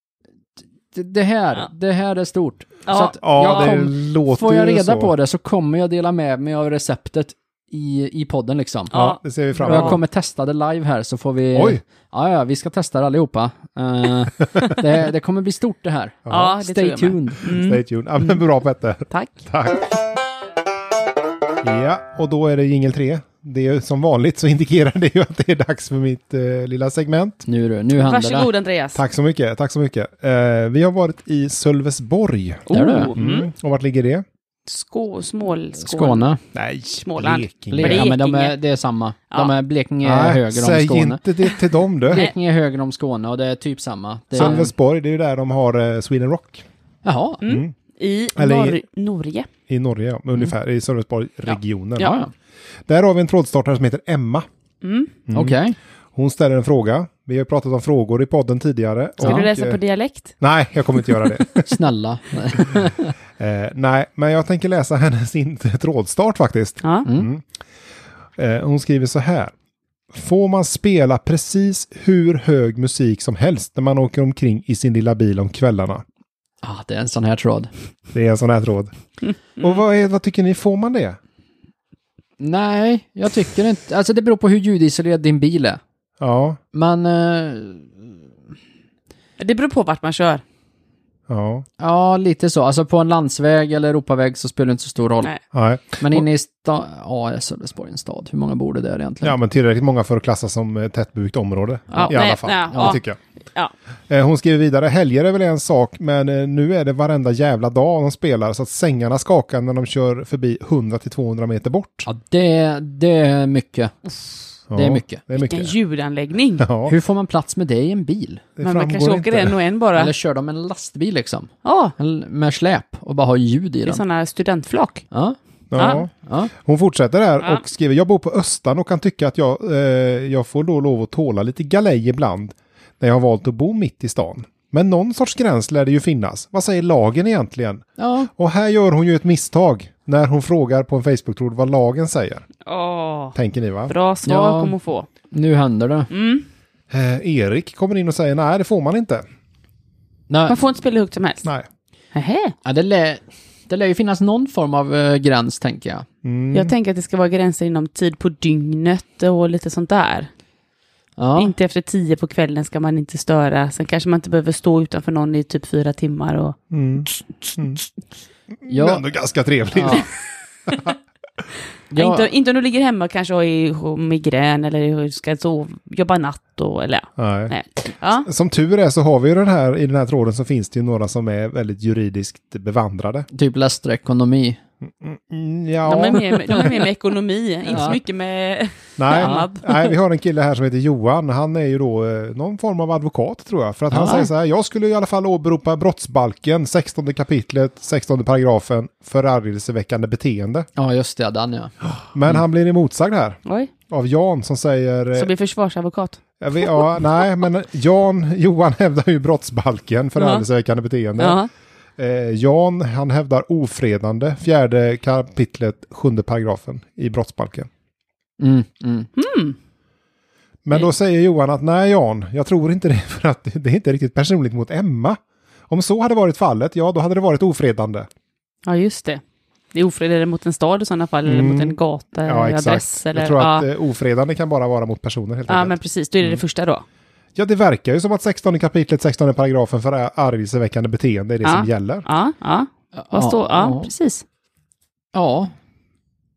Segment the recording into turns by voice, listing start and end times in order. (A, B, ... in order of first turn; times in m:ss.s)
0:00.9-0:09.0 A
0:02.9-0:03.8 B
0:03.1-0:05.1 C
0:08.9-0:10.0 B
0:09.0-0:10.0 C
0:09.6-0:17.5 A
0:11.5-0:11.8 C
0:16.3-0:16.5 C
0:16.3-0:18.4 B
0:17.5-0:20.0 C
0:21.6-0:27.4 C
0:27.5-0:28.5 A
0:28.0-0:29.0 B
0:29.0-0:34.2 C
0:32.7-0:33.5 B
0:32.7-0:33.2 A
0:34.7-0:36.3 B
0:35.8-0:36.4 A
0:36.5-0:38.1 C
0:37.0-0:38.6 B
0:37.7-0:41.2 A
0:40.0-0:42.3 C
0:42.0-0:44.7 A
0:44.4-0:46.7 C
0:44.4-0:44.6 B
0:47.0-0:47.4 A
0:47.4-0:49.5 B
0:47.4-0:47.7 C
0:48.4-0:48.8 C
0:49.7-0:52.2 C
0:51.5-0:52.2 B
0:52.0-0:52.3 A
0:52.9-0:54.5 C
0:54.8-0:55.1 B
0:55.3-0:55.6 C
0:55.3-0:55.8 A
0:56.2-0:59.8 C
0:59.2-1:00.3 B
1:00.4-1:01.7 C
1:01.6-1:03.1 A
1:03.4-1:07.4 C
1:08.4-1:09.5 C
1:10.1-1:16.0 C
1:16.6-1:17.7 A
1:18.1-1:18.9 C
1:19.6-1:21.2 C
1:22.4-1:25.8 A
1:26.2-1:26.6 C
1:26.7-1:28.0 A
1:29.4-1:30.4 B
1:31.3-1:31.6 C
1:31.8-1:35.3 A
1:35.5-1:36.3 C
1:36.0-1:39.4 A
1:39.2-1:43.2 C
1:41.9-1:42.2 A
1:41.9-1:43.0 B
1:42.7-1:43.0 A
1:44.1-1:52.1 C
1:52.1-1:54.0 A
1:54.7-1:55.8 C
1:54.7-1:55.2 A
1:55.4-1:56.7 B
1:56.6-1:56.9 C
1:56.9-1:58.5 A
1:58.6-1:59.6 C
1:58.6-2:00.1 B
2:00.0-2:04.0 A
2:01.6-2:01.9 B
2:03.9-2:05.0 B
2:05.1-2:06.5 A
2:05.7-2:22.4 C
2:05.8-2:06.0 B
2:18.0-2:18.3 A
2:22.6-2:23.4 B
2:23.4-2:23.9 C
2:23.9-2:25.1 B
2:24.3-2:24.7 A
2:25.3-2:26.1 A
2:26.1-2:26.4 B
2:26.9-2:29.2 C
2:30.3-2:30.6 A
2:30.5-2:31.5 B
2:32.1-2:32.6 B
2:32.6-2:36.1 A
2:36.2-2:36.7 C
2:36.5-2:40.3 B
2:41.2-2:41.5 A
2:41.4-2:46.6 B
2:46.7-2:47.8 C
2:48.6-2:50.1 C
2:48.7-2:49.0 A
2:49.7-2:50.1 A
2:51.9-2:52.3 A
2:52.0-2:58.3 B
2:57.2-2:57.5 C
2:58.2-3:03.3 C
3:03.3-3:04.6 A
3:04.8-3:06.9 C
3:05.9-3:09.9 B
3:07.7-3:08.0 A
3:09.0-3:20.7 C
3:09.1-3:09.5 A
3:13.9-3:14.3 A
3:20.8-3:21.8 A
3:22.1-3:25.3 C
3:23.5-3:23.7 B
3:25.2-3:26.8 B
3:26.4-3:31.4 C
3:30.2-3:30.4 B
3:31.2-3:31.5 B
3:32.0-3:37.7 C
3:38.4-3:39.1 A
3:39.2-3:39.6 B
3:40.6-3:48.1 C
3:48.7-3:49.2 B
3:49.7-3:53.7 B
3:51.2-3:56.4 C
3:55.5-3:56.8 B
3:57.4-4:02.1 C
4:01.4-4:04.2 B
4:03.0-4:03.9 A
4:05.1-4:05.5 A